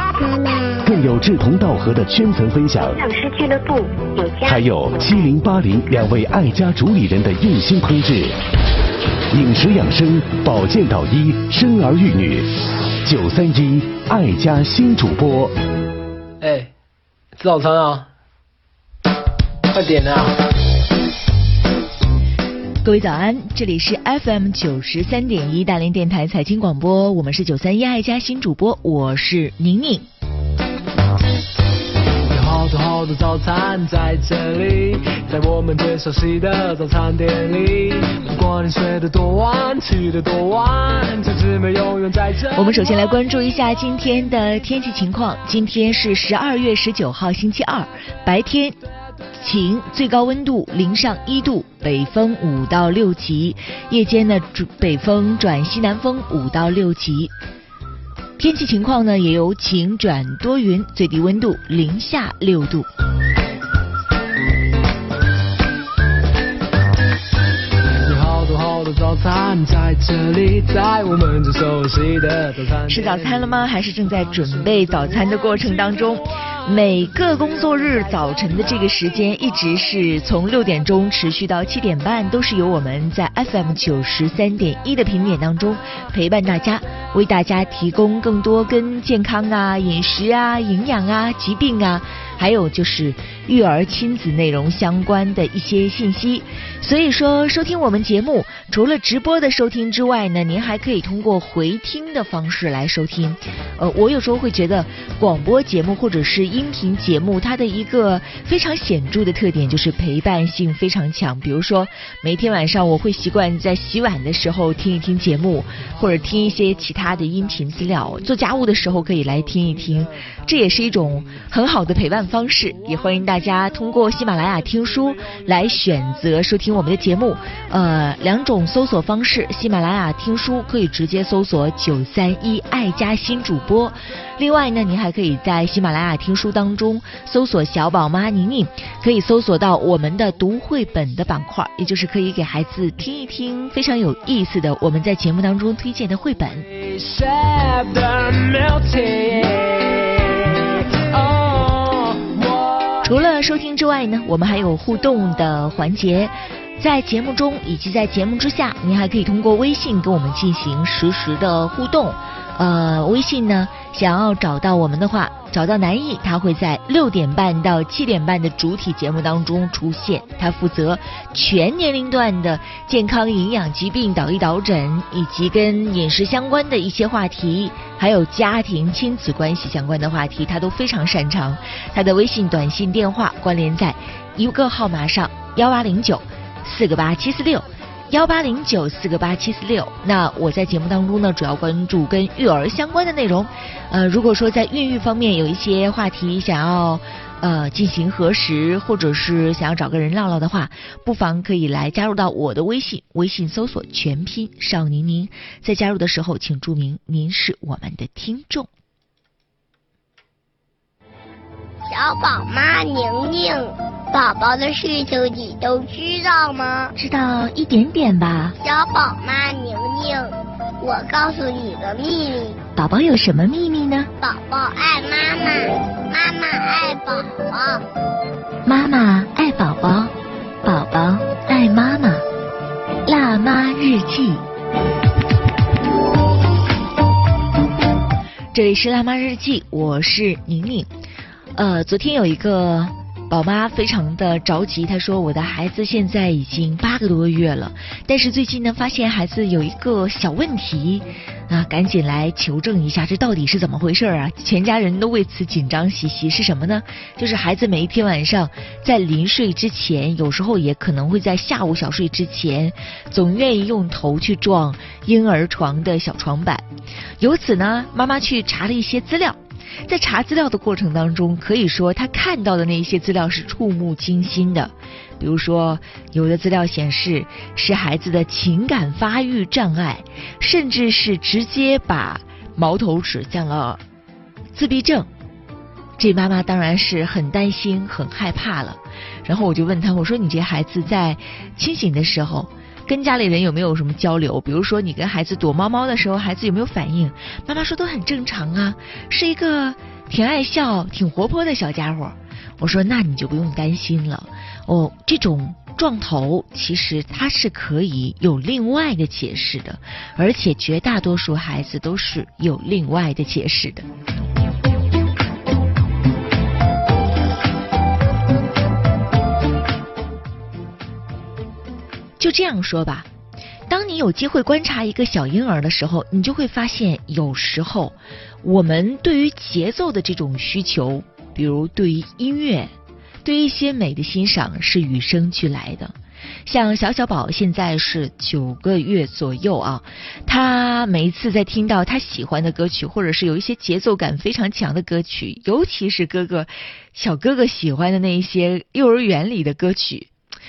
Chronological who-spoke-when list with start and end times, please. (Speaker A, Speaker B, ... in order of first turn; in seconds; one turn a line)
Speaker A: 0.8-3.0
Speaker B: 2.9-5.3
Speaker A: 4.5-8.4
Speaker A: 9.3-12.5
Speaker A: 13.0-15.5
Speaker C: 16.4-16.7
Speaker C: 17.4-18.1
Speaker C: 19.7-20.4
Speaker D: 22.8-30.1
Speaker C: 32.3-43.0
Speaker D: 42.5-48.8
Speaker D: 49.4-57.3
Speaker D: 58.4-62.9
Speaker C: 68.0-73.5
Speaker D: 72.9-146.7
Speaker C: 146.8-153.0
Speaker D: 153.0-208.7
Speaker E: 211.8-216.9
Speaker D: 216.9-218.6
Speaker E: 218.6-222.6
Speaker D: 222.8-224.1
Speaker E: 224.2-227.8
Speaker D: 228.7-232.2
Speaker D: 233.1-234.4
Speaker D: 238.5-240.9
Speaker D: 241.6-266.7
Speaker D: 267.2-283.8
Speaker D: 284.5-285.1
Speaker D: 286.0-313.9
Speaker D: 322.2-323.1
Speaker D: 323.7-332.7
Speaker D: 333.2-335.9
Speaker D: 336.5-350.1